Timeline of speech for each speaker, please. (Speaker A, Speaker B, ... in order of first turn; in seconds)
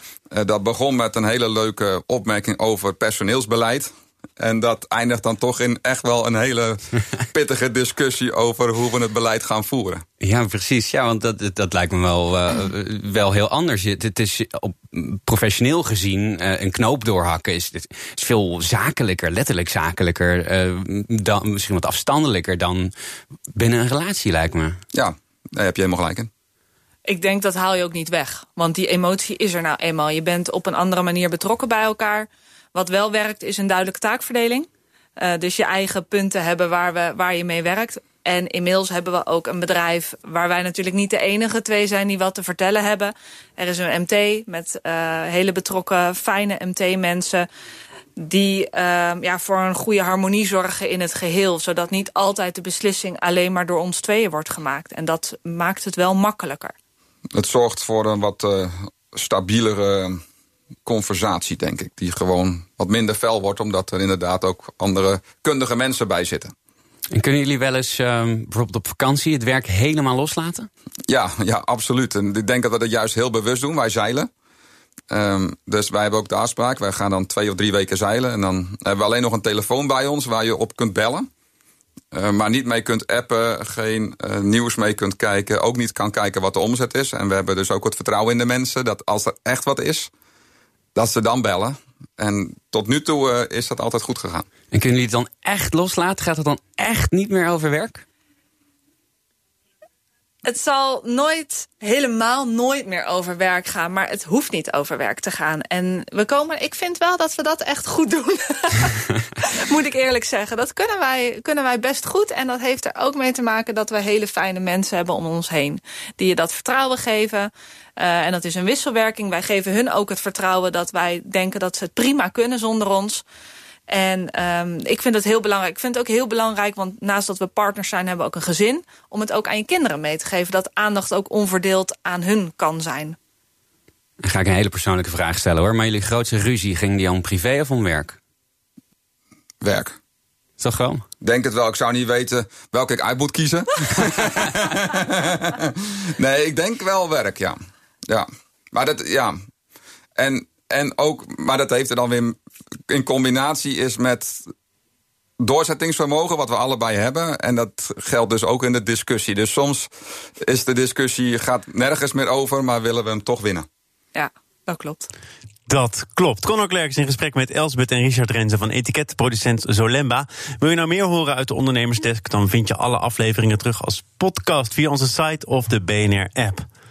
Speaker A: 0.3-10.0, 24.9-26.3, 57.3-60.2, 60.9-66.5, 71.1-74.3, 75.1-81.3, 82.1-90.1, 91.0-94.5, 139.6-140.0, 141.2-147.6, 148.1-149.4, 150.2-152.4, 152.9-154.4, 155.4-159.9, 160.4-163.7
Speaker B: 10.2-22.9, 23.5-24.8, 67.1-70.7, 94.7-98.0, 134.2-138.2, 140.6-141.0
Speaker C: 27.1-47.5, 48.2-56.7, 100.5-123.2, 123.9-133.2, 164.2-165.1
Speaker D: 165.7-176.7